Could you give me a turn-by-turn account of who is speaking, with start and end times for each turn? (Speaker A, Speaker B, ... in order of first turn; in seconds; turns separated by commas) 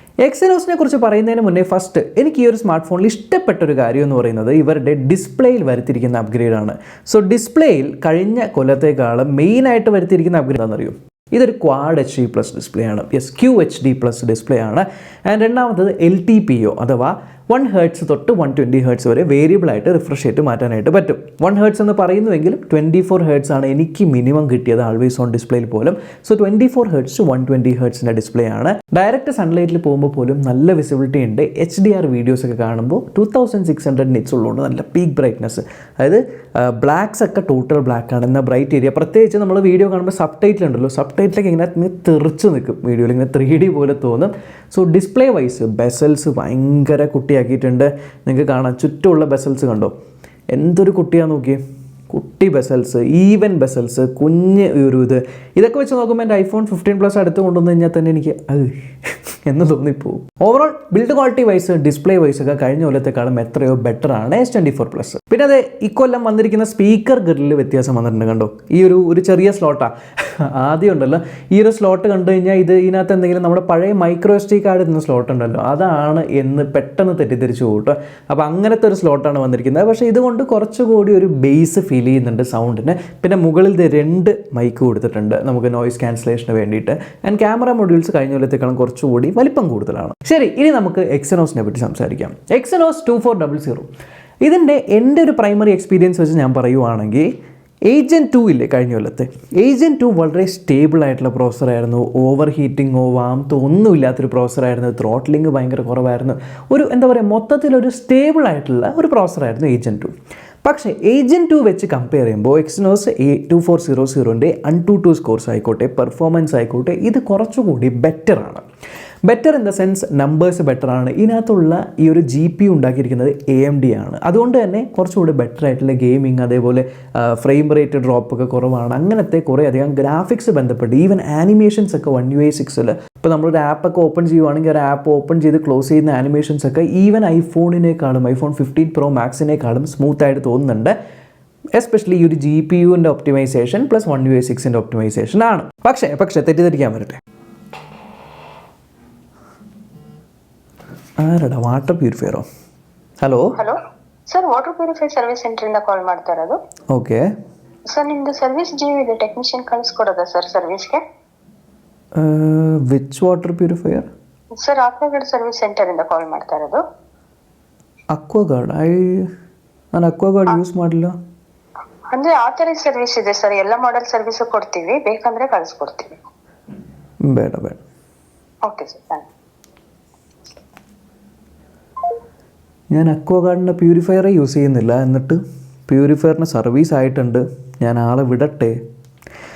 Speaker A: 0.2-49.9, Speaker A: 50.5-58.8, Speaker A: 59.5-93.9, Speaker A: 94.4-97.3, Speaker A: 97.9-110.1, Speaker A: 110.6-118.7, Speaker A: 119.2-140.9, Speaker A: 141.7-147.2, Speaker A: 151.2-152.4, Speaker A: 153.2-153.6, Speaker B: 153.6-156.6, Speaker A: 156.9-157.3, Speaker B: 157.9-161.0, Speaker A: 162.2-164.1, Speaker B: 164.5-166.8, Speaker A: 168.1-169.3, Speaker A: 169.9-171.2, Speaker B: 172.1-176.2, Speaker A: 177.2-177.8, Speaker B: 178.7-179.3, Speaker A: 182.9-188.8